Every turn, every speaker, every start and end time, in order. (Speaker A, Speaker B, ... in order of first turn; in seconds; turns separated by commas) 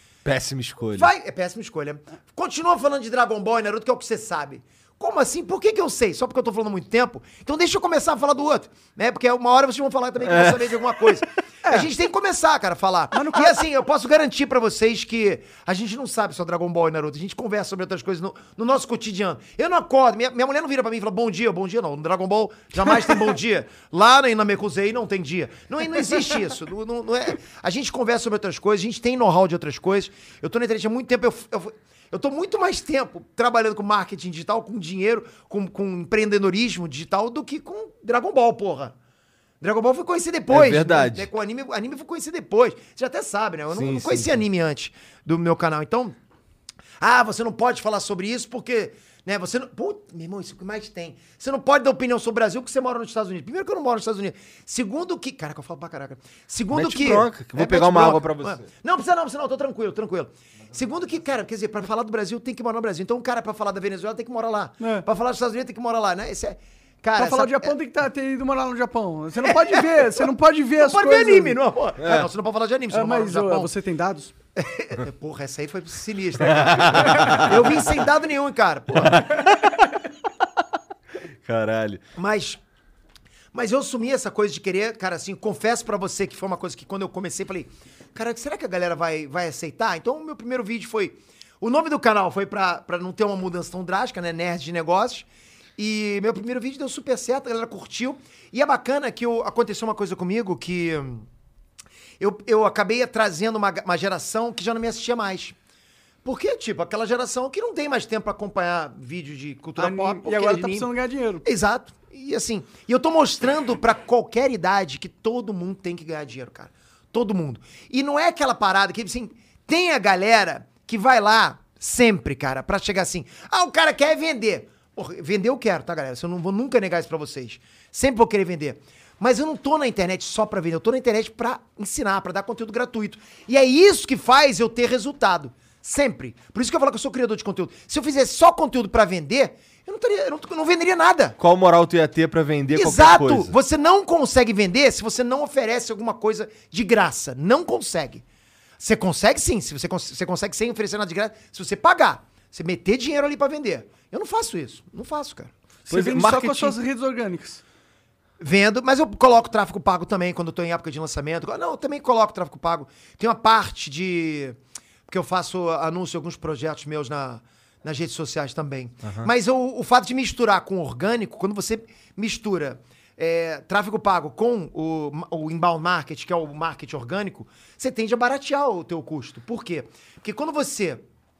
Speaker A: 0.2-1.1, Speaker B: 0.9-39.0, Speaker A: 10.2-10.8, Speaker C: 13.1-13.6, Speaker B: 39.6-46.2, Speaker A: 40.5-41.3, Speaker A: 43.7-44.4, Speaker B: 47.0-67.7, Speaker A: 56.7-58.6, Speaker C: 64.8-65.1, Speaker C: 67.2-71.6, Speaker B: 69.5-70.2, Speaker B: 70.8-73.7, Speaker A: 72.0-72.3, Speaker C: 72.9-74.3, Speaker B: 74.6-79.2, Speaker A: 76.4-77.6, Speaker A: 79.0-79.8, Speaker A: 81.4-82.0, Speaker B: 82.2-82.6, Speaker B: 83.5-95.3, Speaker B: 95.8-101.3, Speaker B: 102.2-105.5, Speaker B: 106.2-110.9, Speaker C: 109.8-111.5, Speaker B: 111.4-141.4, Speaker A: 141.4-143.6, Speaker B: 142.8-148.2, Speaker B: 148.8-155.5, Speaker C: 155.9-157.6, Speaker A: 155.9-156.8, Speaker B: 158.4-164.6, Speaker B: 165.1-181.0, Speaker A: 169.0-169.3